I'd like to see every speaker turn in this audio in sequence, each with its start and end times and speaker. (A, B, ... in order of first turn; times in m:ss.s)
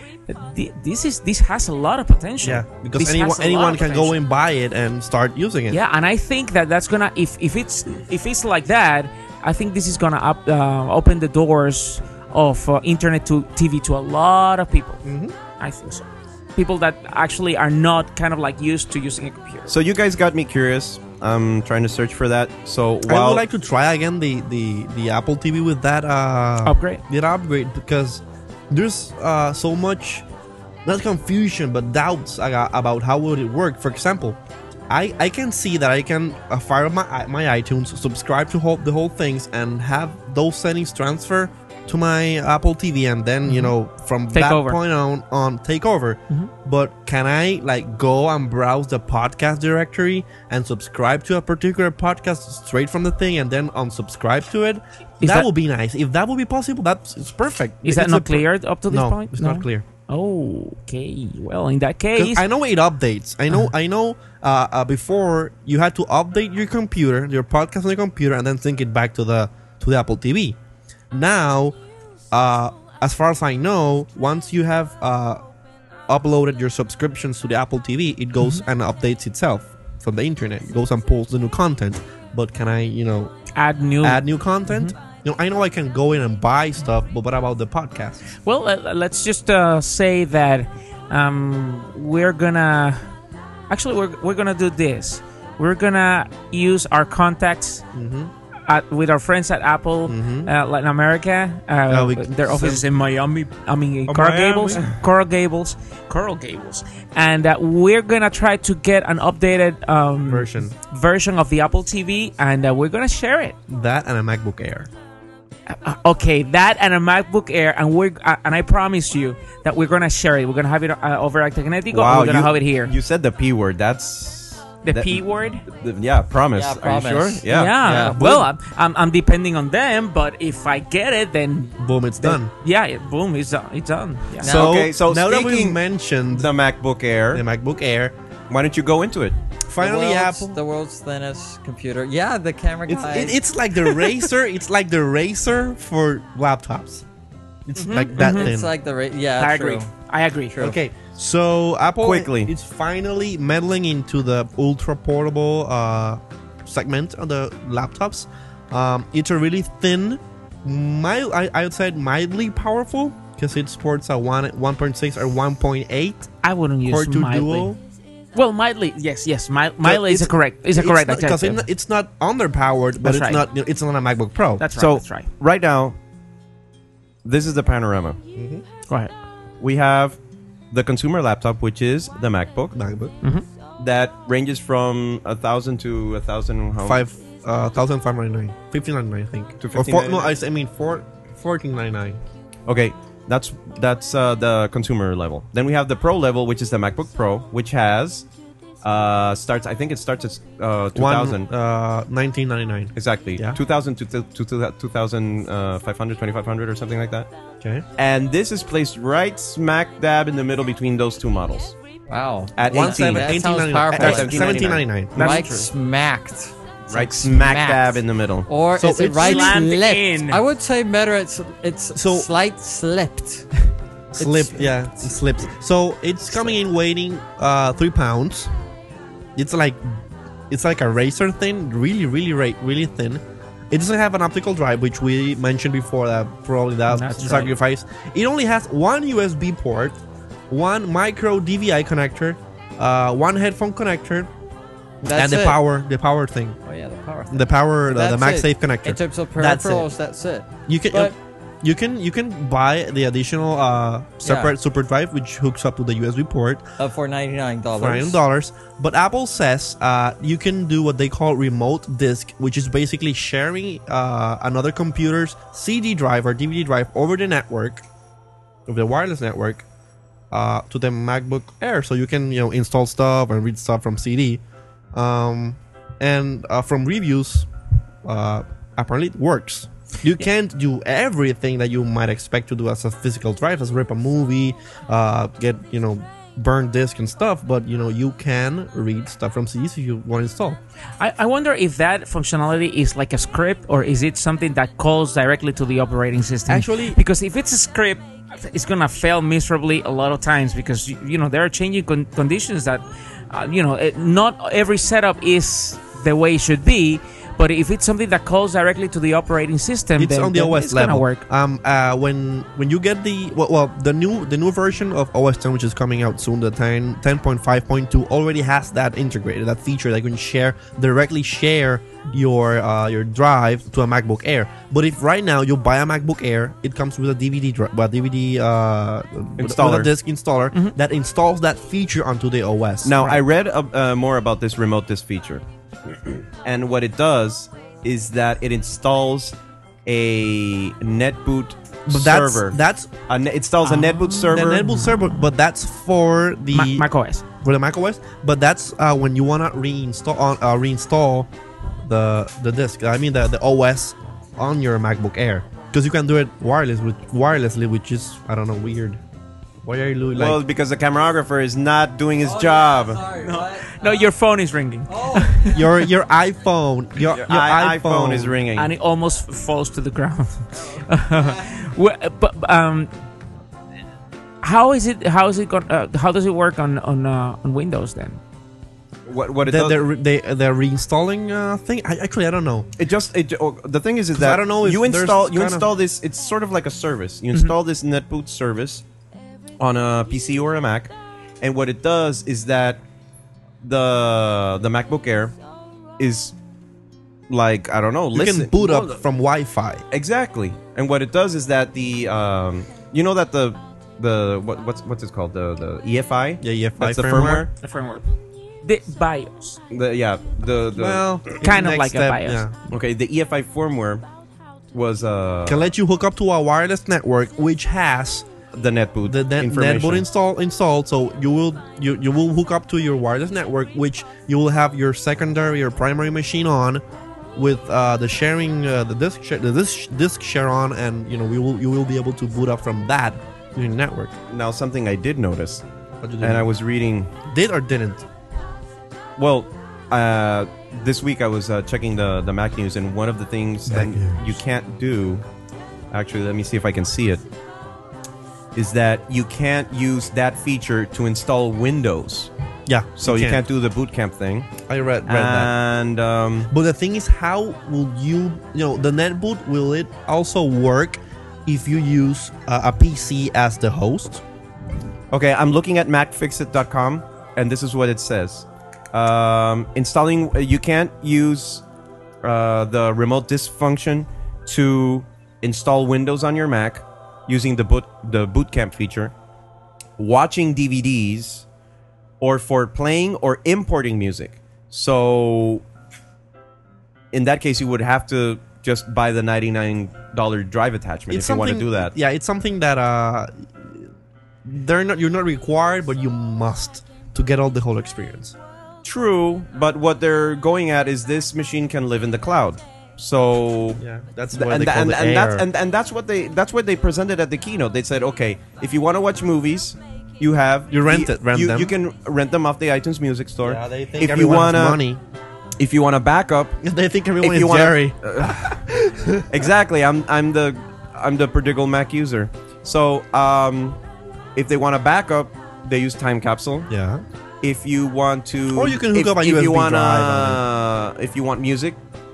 0:00.3-0:04.2 A
0:02.4-0:05.8 B
0:05.7-0:15.1 A
0:15.0-0:15.4 B
0:15.6-0:19.7 A
0:19.7-0:23.4 C
0:23.1-0:30.3 B
0:26.6-0:27.0 A
0:30.8-0:34.4 B
0:34.9-0:59.8 B
0:43.5-0:43.7 A
0:44.3-0:44.8 A
0:55.2-0:55.5 A
0:57.8-1:02.4 A
1:02.2-1:10.6 B
1:11.1-1:11.8 B
1:12.3-1:15.4 B
1:16.1-1:23.3 B
1:23.5-1:24.9 A
1:24.0-1:28.3 B
1:28.4-1:33.0 A
1:33.7-1:37.8 A
1:37.9-1:38.3 B
1:38.7-1:53.6 A
1:40.1-1:40.5 B
1:41.9-1:42.8 B
1:44.1-1:44.8 B
1:50.3-1:50.7 B
1:53.7-1:54.9 B
1:55.7-2:02.9 A
2:01.9-2:07.8 C
2:04.8-2:05.6 A
2:06.6-2:08.2 D
2:07.5-2:14.6 A
2:07.9-2:08.5 B
2:11.8-2:12.5 B
2:14.4-2:15.8 C
2:14.4-2:16.5 B
2:14.4-2:14.8 D
2:16.3-2:17.4 C
2:17.3-2:18.1 B
2:18.5-2:19.4 C
2:19.7-2:20.6 B
2:19.8-2:23.4 D
2:22.9-2:27.0 B
2:27.7-2:28.7 B
2:27.8-2:28.5 A
2:28.2-2:29.9 D
2:29.4-2:30.6 A
2:30.6-2:46.3 B
2:32.0-2:32.5 C
2:46.4-2:47.7 A
2:46.8-2:47.8 B
2:48.3-2:51.6 A
2:49.8-2:54.6 B
2:53.0-2:53.4 A
2:54.6-2:55.3 A
2:54.7-2:56.0 C
2:57.2-2:58.2 C
2:58.4-2:58.6 B
2:58.9-2:59.1 A
2:59.6-3:00.2 C
3:00.7-3:02.8 C
3:02.7-3:03.1 B
3:03.8-3:07.0 C
3:06.8-3:12.2 B
3:09.6-3:10.3 C
3:12.7-3:18.3 C
3:18.8-3:21.5 C
3:21.0-3:23.6 B
3:23.0-3:27.3 C
3:28.0-3:31.8 C
3:32.1-3:43.6 D
3:32.6-3:33.4 C
3:32.7-3:35.3 B
3:33.9-3:35.7 C
3:35.2-3:35.5 A
3:36.9-3:38.5 C
3:38.8-3:39.6 B
3:39.0-3:40.4 A
3:41.9-3:42.3 B
3:44.2-3:48.5 B
3:44.2-3:44.6 D
3:49.4-4:00.0 B
3:56.9-3:57.6 A
4:00.5-4:04.3 B
4:05.0-4:05.6 D
4:05.1-4:06.6 B
4:06.6-4:11.1 D
4:07.3-4:09.9 B
4:10.7-4:16.6 B
4:14.2-4:14.6 D
4:16.8-4:18.2 D
4:17.8-4:27.8 B
4:28.7-4:29.6 B
4:30.3-4:34.4 B
4:34.9-4:37.5 B
4:38.0-4:50.6 B
4:51.0-5:11.2 A
4:56.5-4:57.0 B
5:10.0-5:33.2 B
5:29.4-5:29.9 C
5:32.8-5:35.4 C
5:36.0-5:39.4 C
5:39.9-5:44.8 C
5:41.9-5:42.9 B
5:43.6-5:45.1 A
5:44.3-5:46.9 B
5:46.5-5:47.2 A
5:47.4-5:51.3 B
5:51.8-5:59.0 B
5:59.6-6:00.4 B
6:00.2-6:03.1 C
6:02.2-6:04.1 D
6:03.2-6:05.7 A
6:04.9-6:05.5 D
6:05.5-6:08.4 B
6:07.1-6:08.7 C
6:08.6-6:12.9 A
6:14.4-6:18.2 A
6:19.1-6:19.8 C
6:19.4-6:22.7 B
6:22.8-6:28.8 C
6:24.2-6:25.7 B
6:29.6-6:32.8 C
6:33.6-6:35.4 C
6:36.0-6:36.4 C
6:37.3-6:38.9 C
6:38.1-6:39.8 B
6:39.9-6:47.5 C
6:46.4-6:47.5 B
6:47.6-6:48.1 A
6:48.6-6:49.6 A
6:49.7-6:51.2 C
6:50.8-6:52.6 B
6:51.4-6:52.4 A
6:52.7-6:54.0 C
6:54.7-6:55.7 C
6:55.5-6:58.3 B
6:58.5-7:00.1 C
6:59.0-7:06.8 B
7:07.4-7:14.1 B
7:14.3-7:15.6 C
7:16.0-7:16.5 B
7:16.2-7:17.1 C
7:17.2-7:18.0 B
7:19.2-7:25.2 C
7:23.7-7:24.4 B
7:25.9-7:27.2 C
7:28.6-7:32.3 C
7:32.7-7:33.4 B
7:33.0-7:34.5 C
7:34.7-7:35.5 B
7:35.1-7:36.5 C
7:36.5-7:44.2 B
7:45.1-7:51.6 C
7:52.2-7:59.1 C
8:00.0-8:01.4 C
8:02.2-8:05.6 C
8:07.1-8:11.9 C
8:11.1-8:13.9 B
8:14.4-8:18.4 B
8:18.8-8:23.8 C
8:23.8-8:25.5 B
8:24.3-8:34.8 C
8:30.7-8:31.7 B
8:33.4-8:35.0 B
8:35.6-8:36.6 C
8:36.6-8:39.3 B
8:37.2-8:38.6 C
8:39.3-8:43.8 C
8:44.4-8:46.7 C
8:46.7-8:47.0 B
8:47.4-8:51.8 C
8:48.5-8:50.4 B